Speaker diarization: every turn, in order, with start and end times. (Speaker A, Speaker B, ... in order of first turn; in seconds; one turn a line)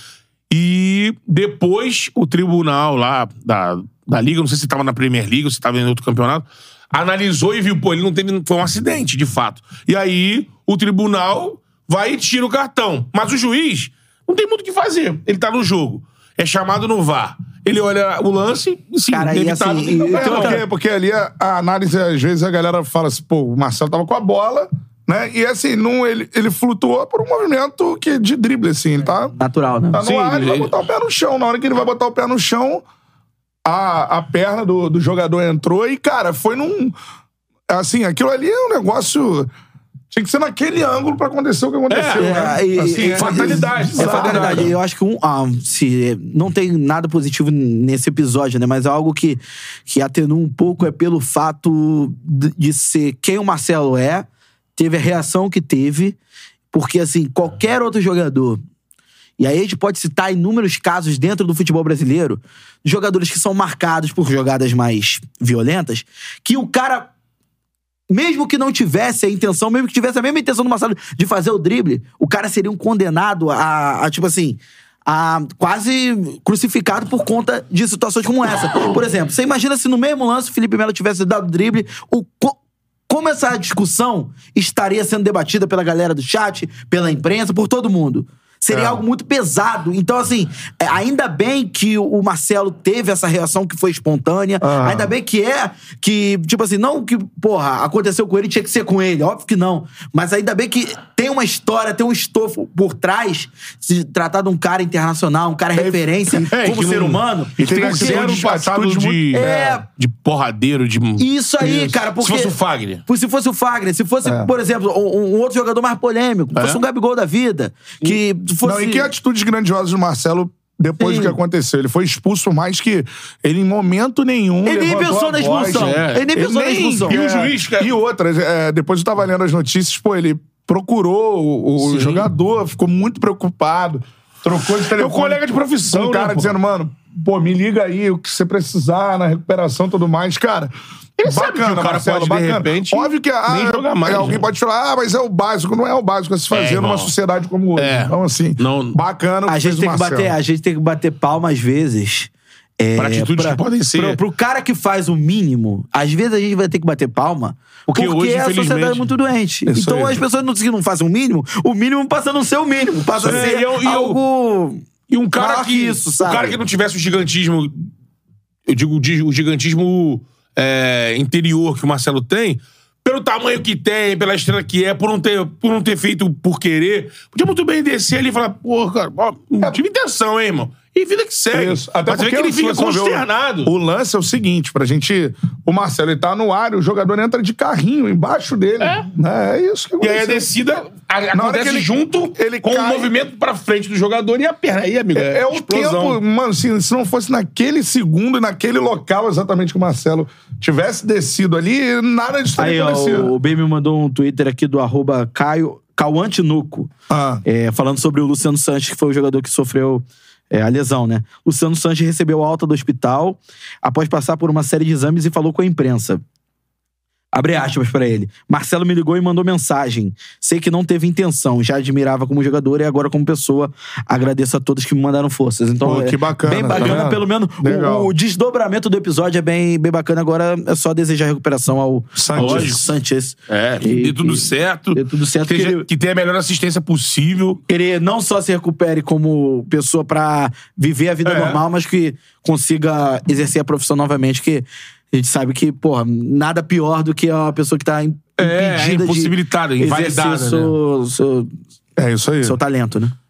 Speaker A: 0.5-20.6
Speaker B: 19.1-20.6
Speaker C: 20.1-29.3
Speaker B: 29.4-30.0
Speaker C: 29.9-32.8
Speaker A: 30.0-30.7
Speaker C: 33.6-37.0
Speaker C: 37.7-39.5
Speaker C: 40.1-44.7
Speaker A: 41.9-42.6
Speaker B: 42.2-56.2
Speaker A: 43.1-44.7
Speaker B: 56.7-58.6
Speaker B: 59.4-67.1
Speaker B: 68.1-82.5
Speaker B: 83.1-108.5
Speaker C: 88.7-89.0
Speaker C: 94.6-95.1
Speaker A: 105.9-113.0
Speaker C: 107.6-109.7
Speaker B: 109.3-109.8
Speaker B: 111.2-112.5
Speaker B: 113.0-119.1
Speaker C: 114.2-114.5
Speaker A: 116.5-116.8
Speaker C: 118.6-150.3
Speaker B: 121.0-121.3
Speaker B: 124.6-127.2
Speaker A: 125.7-127.9
Speaker A: 131.8-132.2
Speaker A: 134.8-136.6
Speaker A: 141.2-144.4
Speaker A: 146.5-147.1
Speaker A: 147.8-149.0
Speaker B: 149.5-164.8
Speaker A: 152.9-154.2
Speaker A: 157.9-159.1
Speaker C: 159.7-160.2
Speaker C: 163.2-163.5
Speaker A: 163.2-164.2
Speaker A: 165.1-167.9
Speaker B: 165.3-166.6
Speaker A: 168.7-183.7
Speaker C: 181.5-190.5
Speaker A: 188.8-189.1
Speaker A: 190.0-196.2
Speaker C: 191.3-193.1
Speaker C: 195.1-203.3
Speaker B: 202.6-206.9
Speaker C: 207.1-207.4
Speaker B: 207.4-216.2
Speaker B: 217.3-235.9
Speaker C: 225.8-228.1
Speaker C: 232.2-232.8
Speaker A: 232.3-232.9
Speaker A: 233.5-237.6
Speaker B: 237.7-251.5
Speaker A: 241.2-241.6
Speaker A: 248.4-250.7
Speaker C: 252.0-252.6
Speaker B: 252.4-253.1